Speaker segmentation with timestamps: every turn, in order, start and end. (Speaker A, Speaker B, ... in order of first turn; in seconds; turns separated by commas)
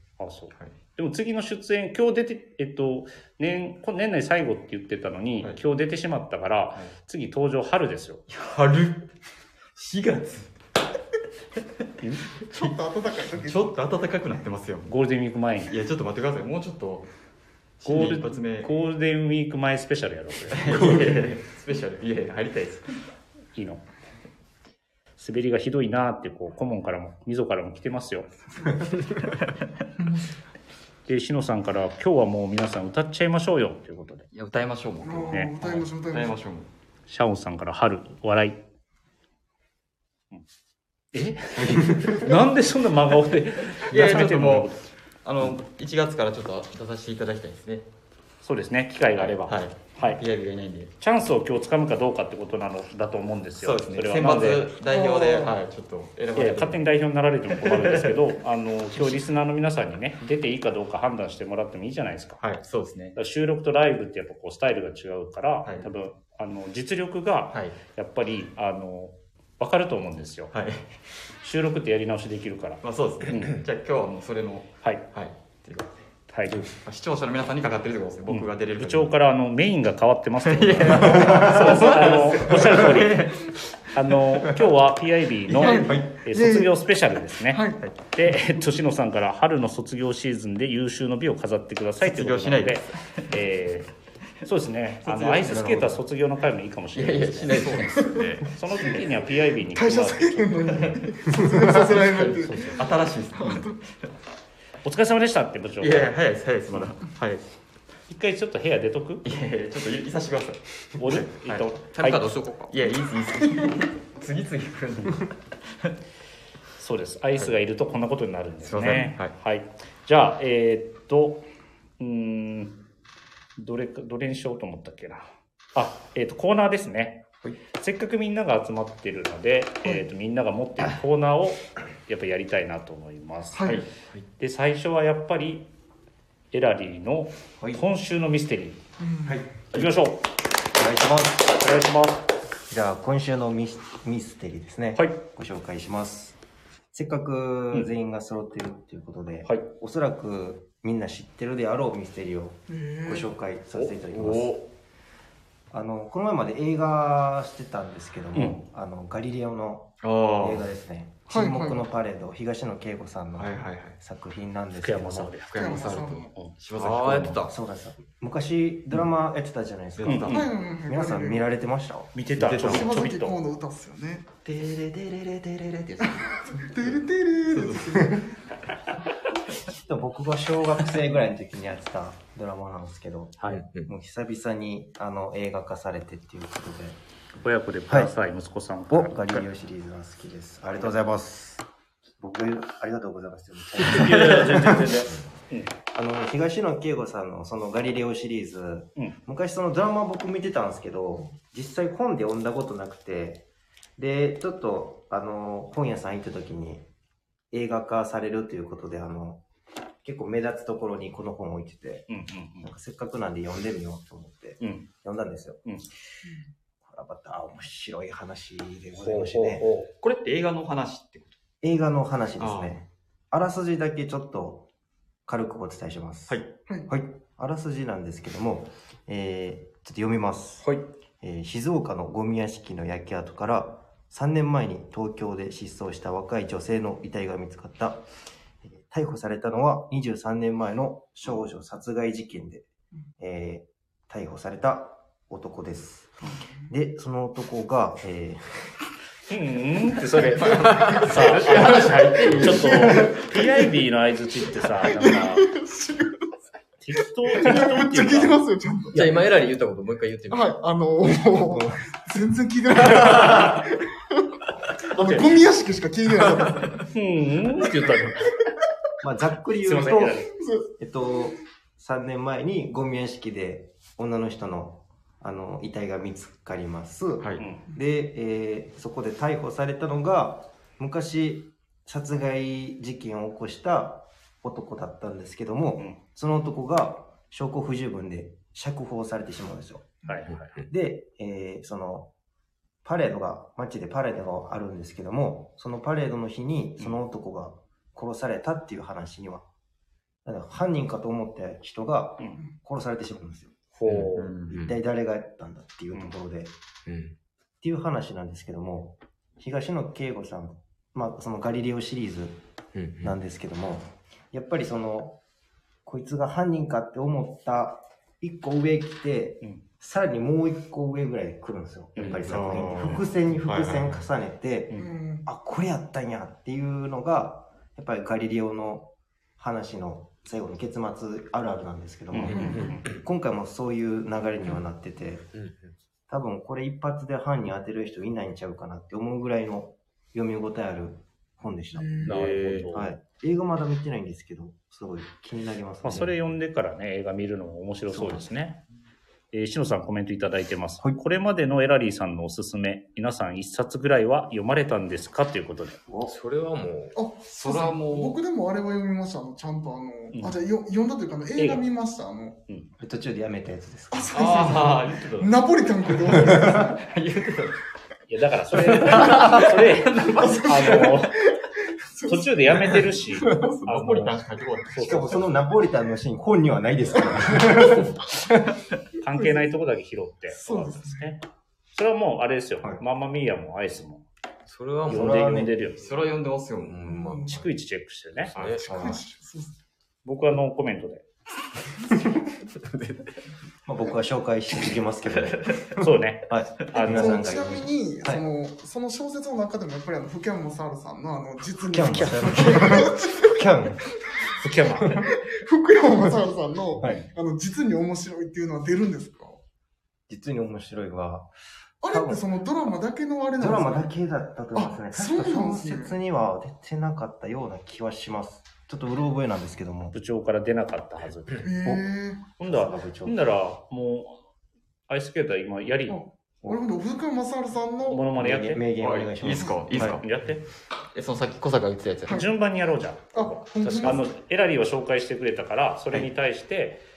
Speaker A: 0.2-8.2, Speaker B: 8.3-9.1, Speaker B: 9.8-10.5, Speaker C: 12.5-13.8, Speaker B: 13.4-14.9, Speaker A: 14.8-15.7, Speaker B: 15.7-17.1, Speaker B: 17.8-18.7, Speaker A: 17.8-21.0, Speaker B: 20.5-23.0, Speaker A: 23.6-23.8, Speaker A: 25.2-28.3, Speaker B: 28.6-29.6, Speaker C: 30.0-30.3, Speaker A: 31.1-34.3, Speaker B: 34.3-36.7, Speaker C: 35.0-36.3, Speaker A: 37.1-38.6, Speaker A: 41.1-44.8, Speaker D: 41.7-42.2, Speaker B: 43.9-47.9, Speaker A: 48.4-50.2, Speaker B: 49.2-50.9, Speaker A: 51.0-54.7, Speaker B: 53.6-56.8, Speaker C: 54.9-55.5, Speaker A: 56.4-62.4, Speaker B: 57.5-58.1, Speaker B: 62.4-63.1, Speaker A: 63.1-70.5, Speaker B: 70.5-70.9, Speaker A: 71.4-73.5, Speaker B: 72.8-76.0, Speaker A: 76.3-76.7, Speaker B: 76.6-79.1, Speaker A: 78.3-83.3, Speaker B: 80.4-83.8, Speaker A: 83.9-93.9, Speaker B: 85.5-85.9, Speaker C: 85.6-86.8, Speaker D: 85.7-86.1, Speaker C: 87.5-87.8, Speaker B: 92.0-93.3, Speaker A: 94.4-97.8, Speaker B: 95.0-96.0, Speaker D: 95.5-95.9, Speaker B: 96.9-99.1, Speaker C: 98.0-98.2, Speaker E: 98.1-98.4, Speaker A: 98.5-100.9, Speaker C: 99.7-102.8, Speaker B: 101.9-103.8, Speaker C: 103.4-103.8, Speaker A: 104.8-106.1, Speaker B: 105.8-107.5, Speaker A: 108.1-109.2, Speaker B: 109.2-111.7, Speaker A: 111.0-112.3, Speaker E: 111.8-112.7, Speaker B: 112.7-115.3, Speaker A: 116.8-121.5, Speaker B: 118.6-119.3, Speaker A: 122.0-122.8, Speaker A: 123.6-127.2, Speaker A: 127.8-133.7, Speaker C: 133.5-133.8, Speaker A: 134.4-135.7, Speaker A: 136.5-138.8, Speaker C: 139.0-139.4, Speaker D: 139.2-139.5, Speaker A: 139.7-140.2, Speaker D: 140.7-141.6, Speaker A: 141.6-142.2, Speaker D: 142.7-146.4, Speaker A: 144.9-145.2, Speaker D: 146.9-154.6, Speaker C: 152.7-153.3, Speaker B: 153.7-154.7, Speaker D: 155.7-165.3, Speaker A: 158.3-158.6, Speaker B: 160.0-160.6, Speaker C: 161.3-161.8, Speaker B: 163.4-164.0, Speaker A: 164.8-166.5, Speaker B: 165.5-167.4, Speaker C: 165.6-166.3, Speaker E: 166.8-167.5, Speaker D: 167.5-172.1, Speaker B: 170.0-170.5, Speaker A: 170.1-170.3, Speaker C: 170.3-171.4, Speaker A: 172.1-173.3, Speaker B: 172.4-172.9, Speaker C: 172.6-174.3, Speaker B: 174.4-176.0, Speaker C: 176.0-178.3, Speaker B: 177.5-178.0, Speaker D: 179.7-187.0, Speaker E: 183.5-183.9, Speaker A: 187.4-189.4, Speaker D: 187.9-188.1, Speaker D: 188.9-191.6, Speaker D: 192.2-194.9, Speaker A: 193.8-195.7, Speaker D: 195.9-203.4, Speaker D: 204.0-206.8, Speaker D: 207.5-209.4, Speaker D: 210.0-212.1, Speaker A: 212.1-212.7, Speaker D: 212.6-215.6, Speaker A: 214.6-214.9, Speaker D: 216.8-219.6, Speaker A: 219.0-219.9, Speaker B: 220.0-221.4, Speaker D: 221.6-224.7, Speaker B: 222.4-222.8, Speaker D: 225.2-238.0, Speaker D: 238.6-242.7, Speaker D: 243.2-248.7, Speaker A: 249.3-255.5, Speaker B: 251.3-253.0, Speaker C: 254.8-256.3, Speaker A: 256.8-259.3, Speaker C: 257.3-259.1, Speaker E: 258.9-260.5, Speaker C: 260.3-264.2, Speaker A: 264.9-265.3, Speaker C: 264.9-266.9, Speaker A: 266.9-268.2, Speaker D: 269.0-290.0, Speaker A: 269.6-270.3, Speaker C: 270.4-270.7, Speaker A: 290.1-290.5, Speaker E: 290.3-290.6, Speaker D: 290.6-292.1, Speaker D: 292.8-299.4, Speaker D: 300.2-303.6, Speaker A: 303.8-304.3, Speaker E: 303.9-304.8, Speaker B: 304.2-304.6, Speaker D: 304.5-306.5, Speaker E: 306.9-307.1, Speaker D: 307.6-312.4, Speaker E: 312.7-313.1, Speaker D: 313.0-315.2, Speaker D: 315.8-335.3, Speaker A: 321.9-322.2, Speaker B: 322.0-323.9, Speaker C: 324.8-325.2, Speaker A: 332.1-332.8, Speaker E: 332.2-332.9, Speaker C: 332.3-332.8, Speaker E: 335.3-335.7, Speaker D: 336.1-346.1, Speaker C: 341.7-342.1, Speaker E: 342.0-342.8, Speaker A: 342.1-342.9, Speaker A: 345.8-348.6, Speaker A: 349.3-355.8, Speaker E: 356.0-357.0, Speaker C: 356.9-362.4, Speaker B: 357.3-358.2, Speaker A: 361.4-361.6, Speaker D: 362.8-364.6, Speaker C: 363.9-366.8, Speaker B: 364.1-365.3, Speaker B: 366.8-367.6, Speaker A: 368.1-371.1, Speaker B: 368.8-370.9, Speaker C: 370.1-371.2, Speaker C: 371.8-372.7, Speaker A: 372.1-374.2, Speaker B: 373.5-375.1, Speaker A: 374.7-375.1, Speaker D: 374.8-377.9, Speaker A: 379.0-381.2, Speaker C: 380.3-381.1, Speaker A: 381.7-384.0, Speaker E: 384.5-386.1, Speaker D: 384.9-385.5, Speaker A: 384.9-385.8, Speaker B: 385.8-386.7, Speaker E: 386.6-387.4, Speaker C: 386.8-387.4, Speaker A: 387.3-388.3, Speaker B: 388.3-388.6, Speaker E: 388.3-389.0, Speaker C: 388.6-389.5, Speaker A: 390.0-391.0, Speaker E: 392.6-393.1, Speaker D: 393.6-395.7, Speaker A: 395.8-397.2, Speaker D: 396.2-398.2, Speaker C: 396.8-403.4, Speaker D: 401.7-403.9, Speaker A: 404.4-405.0, Speaker C: 404.9-409.4, Speaker D: 410.1-411.3, Speaker C: 411.8-413.9, Speaker D: 411.8-412.2, Speaker D: 413.4-419.9, Speaker C: 414.5-415.9, Speaker A: 419.9-421.5, Speaker C: 421.4-422.2, Speaker D: 422.4-423.3, Speaker A: 422.4-424.2, Speaker A: 424.9-426.0, Speaker C: 425.9-428.0, Speaker A: 427.8-428.6, Speaker D: 428.1-430.0, Speaker B: 428.8-430.0, Speaker A: 429.7-430.4, Speaker B: 430.9-432.2, Speaker A: 432.1-436.8, Speaker C: 433.1-434.0